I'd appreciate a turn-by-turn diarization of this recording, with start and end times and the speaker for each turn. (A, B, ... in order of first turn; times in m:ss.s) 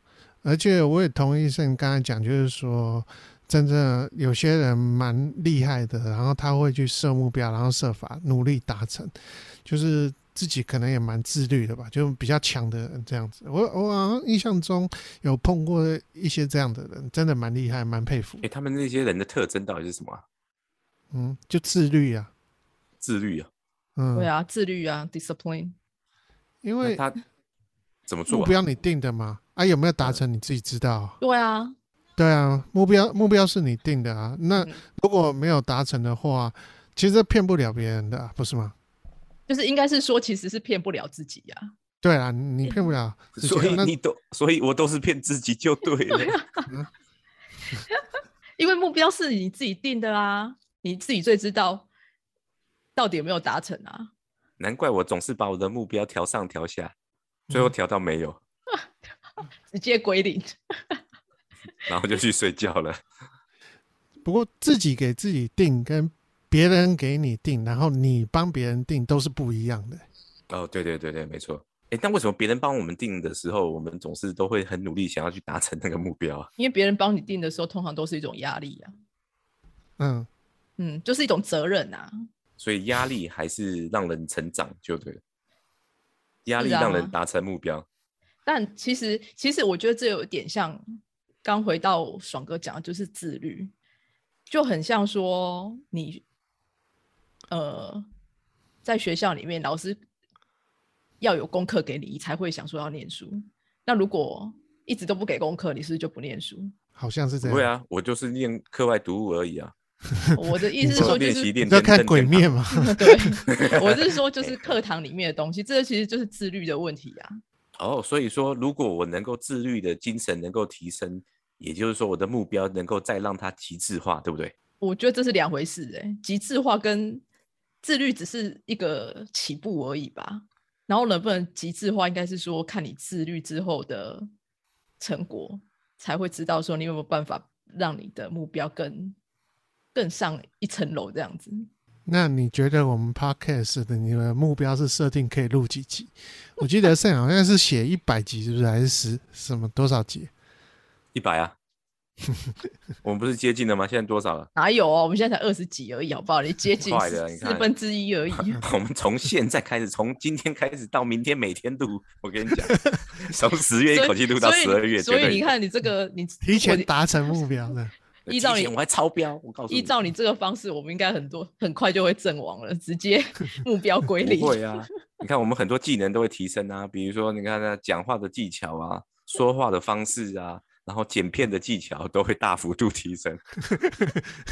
0:00.4-0:18.4 A
0:18.4-0:20.2 B
0:21.1-0:22.3 A
0:23.0-0:23.5 B
0:24.0-0:24.3 A
0:24.2-0:25.8 C
0:26.6-0:27.0 A
0:26.8-0:27.2 B
0:28.1-0:28.6 B
0:28.3-0:31.2 A
0:31.2-0:31.7 C
0:32.2-0:38.8 A
0:39.5-0:41.7 C
0:42.0-0:43.9 A
0:42.7-0:42.9 C
0:43.4-0:46.4 B
0:46.1-0:46.7 C
0:48.6-0:51.9 C
0:53.0-0:54.1 C
0:54.6-0:56.9 B
0:57.5-0:58.4 B
0:59.7-1:01.0 C
1:01.9-1:03.0 B
1:04.2-1:10.0 A
1:10.5-1:16.5 B
1:16.6-1:18.9 C
1:20.0-1:20.3 A
1:20.8-1:22.2 C
1:22.6-1:25.2 B
1:26.5-1:27.9 B
1:26.6-1:27.1 C
1:28.5-1:33.7 C
1:34.5-1:36.2 C
1:37.5-1:38.1 C
1:38.8-1:40.0 C
1:41.2-1:46.7 C
1:47.0-1:47.7 A
1:47.4-1:49.7 B
1:50.2-1:53.4 A
1:50.4-1:51.5 C
1:50.9-1:52.5 B
1:52.7-1:57.4 C
1:53.5-1:53.8 B
1:54.4-1:54.7 B
1:57.8-2:04.6 B
2:04.8-2:07.2 C
2:07.8-2:14.3 C
2:15.0-2:19.2 C
2:19.9-2:21.7 C
2:22.1-2:30.3 A
2:31.1-2:31.6 B
2:33.0-2:34.5 B
2:34.6-2:38.6 C
2:36.8-2:37.7 B
2:38.4-2:45.5 B
2:43.9-2:46.9 C
2:46.4-2:47.9 A
2:48.3-2:49.9 B
2:48.3-2:48.7 C
2:49.7-2:54.8 C
2:54.2-3:03.4 B
3:03.8-3:04.2 A